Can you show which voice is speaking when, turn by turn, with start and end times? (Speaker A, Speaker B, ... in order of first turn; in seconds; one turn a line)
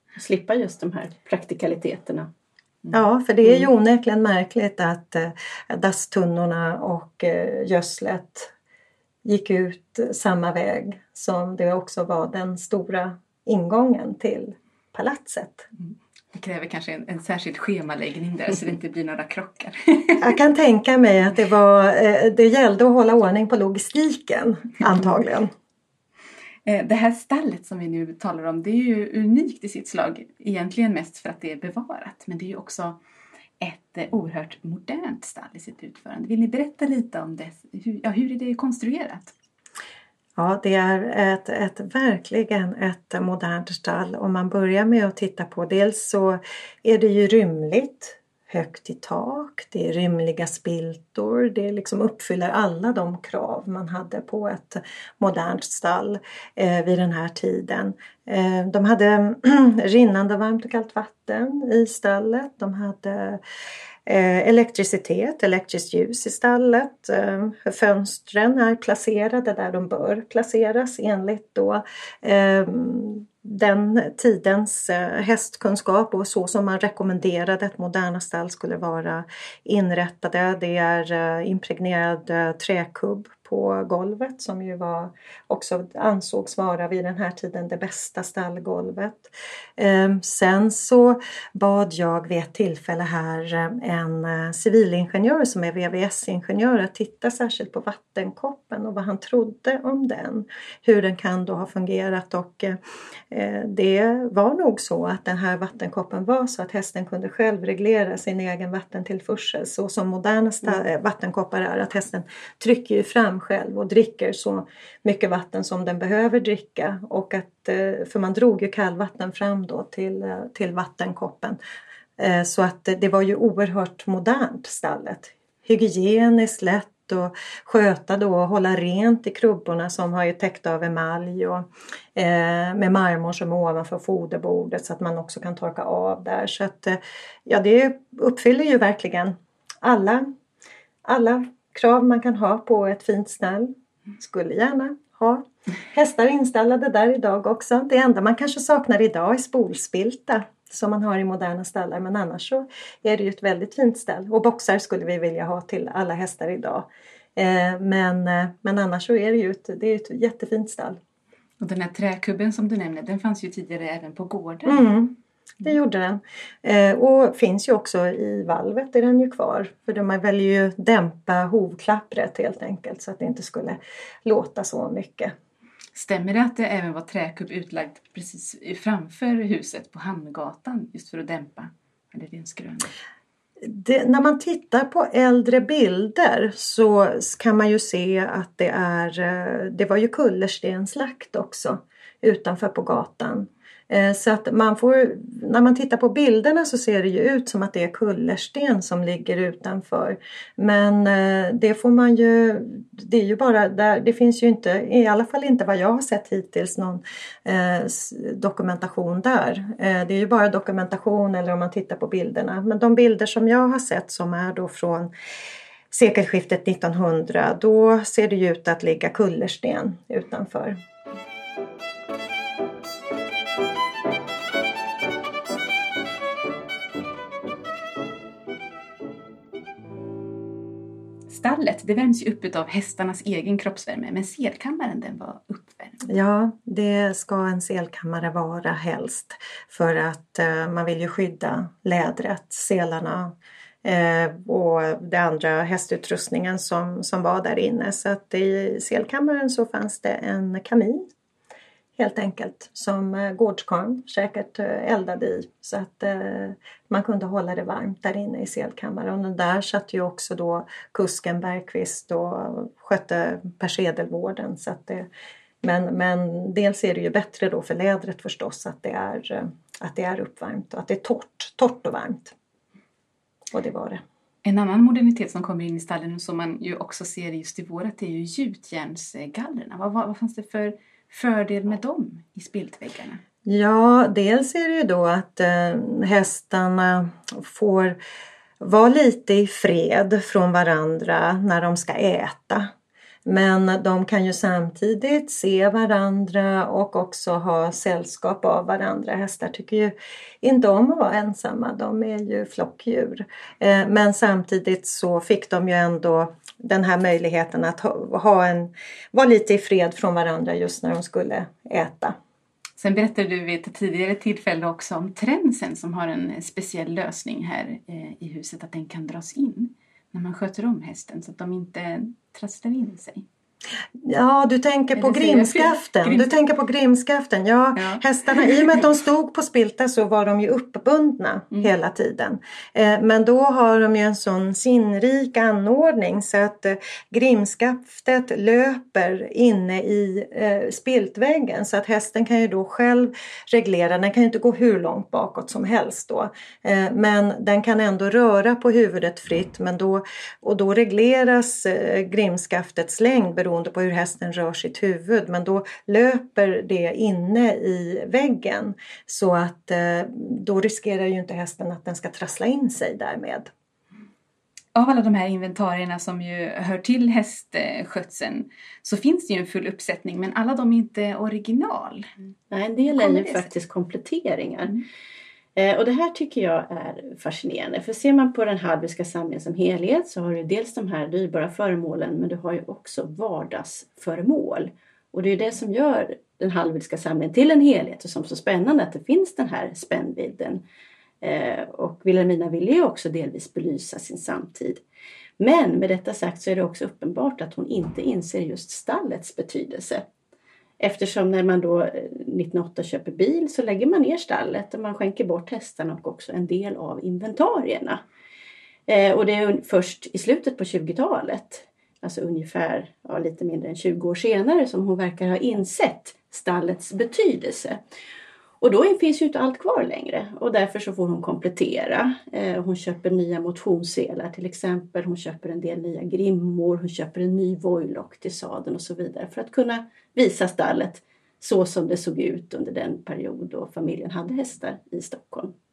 Speaker A: 0.1-2.3
Speaker B: 2.9-8.5
Speaker B: 9.2-15.7
Speaker C: 16.3-20.3
Speaker B: 20.2-25.5
Speaker C: 26.6-33.0
Speaker C: 33.6-39.3
Speaker B: 40.4-63.4
Speaker B: 64.0-102.8
Speaker B: 103.3-121.6
Speaker B: 122.2-140.3
Speaker B: 141.0-161.0
Speaker C: 161.6-164.9
Speaker B: 164.7-175.3
Speaker C: 175.9-182.9
Speaker B: 183.6-215.1
Speaker B: 215.9-220.8
Speaker C: 231.3-236.0
Speaker B: 236.1-251.1
Speaker B: 252.0-265.1
Speaker B: 265.6-272.3
Speaker B: 273.5-274.0
Speaker C: 274.4-283.2
Speaker B: 283.4-288.0
Speaker B: 288.6-292.7
Speaker B: 293.2-312.1
Speaker C: 312.8-323.2
Speaker B: 324.0-363.5
Speaker C: 324.9-326.3
Speaker C: 327.8-328.6
Speaker C: 364.7-372.1
Speaker A: 372.5-374.8
Speaker C: 372.9-373.5
Speaker A: 375.6-390.6
Speaker A: 391.2-394.8
Speaker A: 395.4-400.1
Speaker A: 400.8-408.0
Speaker A: 408.9-417.8
Speaker A: 418.6-435.5